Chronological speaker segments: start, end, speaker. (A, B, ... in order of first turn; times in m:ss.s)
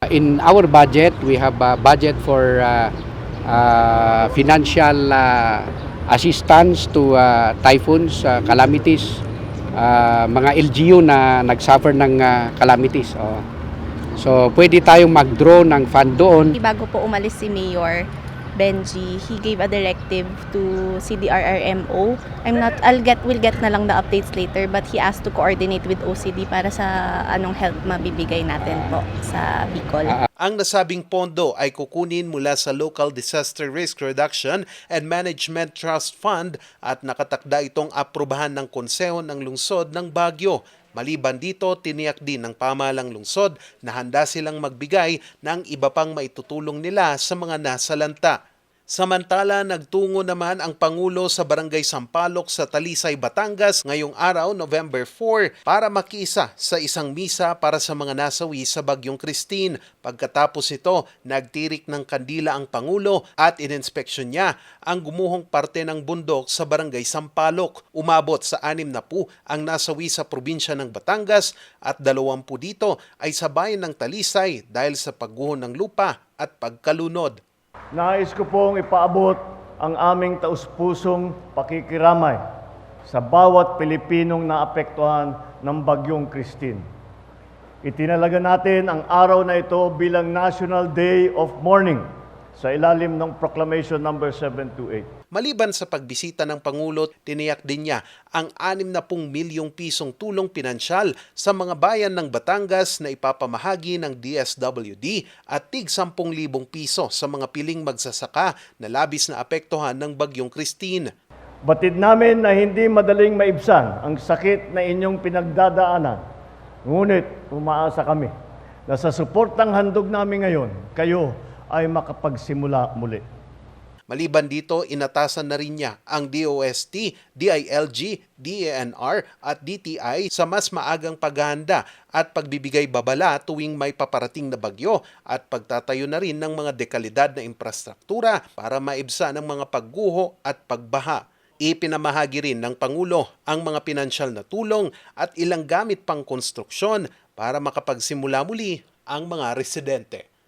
0:00.1-0:02.9 A
0:03.5-0:09.2 A
0:09.7-0:13.5 A
0:14.2-0:16.6 A
0:16.5-0:30.2 B
0:30.4-0:48.4 C
0:48.9-1:17.4 C
1:18.0-1:22.4 D
1:23.0-1:26.8 D
1:27.8-1:35.1 D
1:35.3-1:51.1 C
1:51.6-1:56.2 D
1:56.9-1:58.3 D
1:58.9-2:03.2 D
2:04.1-2:30.2 C